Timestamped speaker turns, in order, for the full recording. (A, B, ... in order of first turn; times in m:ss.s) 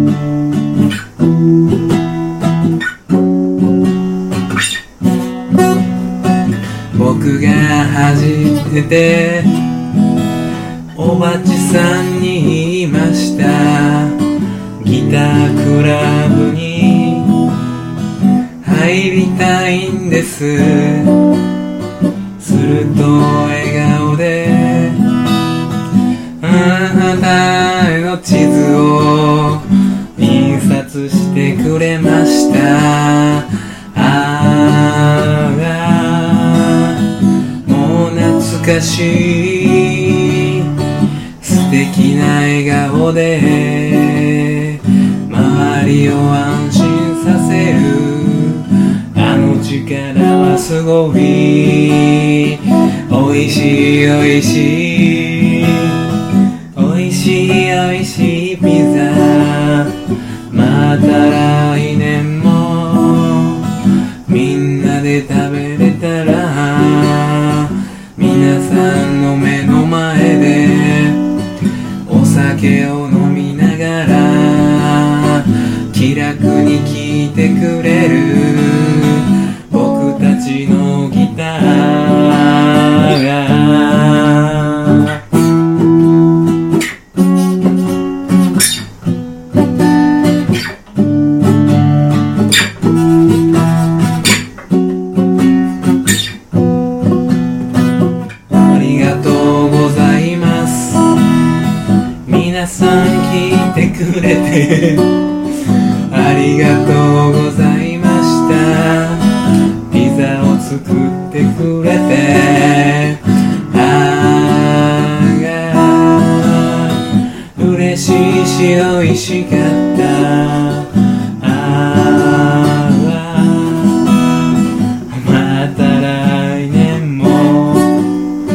0:06.9-0:09.6 A
0:10.9-0:14.2 A
0:14.8-0:17.4 A
0:18.6-0:21.3 A
0:22.4-0:25.0 A
0:26.4-0:37.0 A
0:37.6-0:40.7 A
0:41.4-0:56.1 A
0:56.7-1:00.0 A
1:00.5-1:11.2 A
1:12.0-1:25.2 A
1:38.5-1:41.4 A
1:42.2-2:04.1 A
2:05.1-2:08.1 A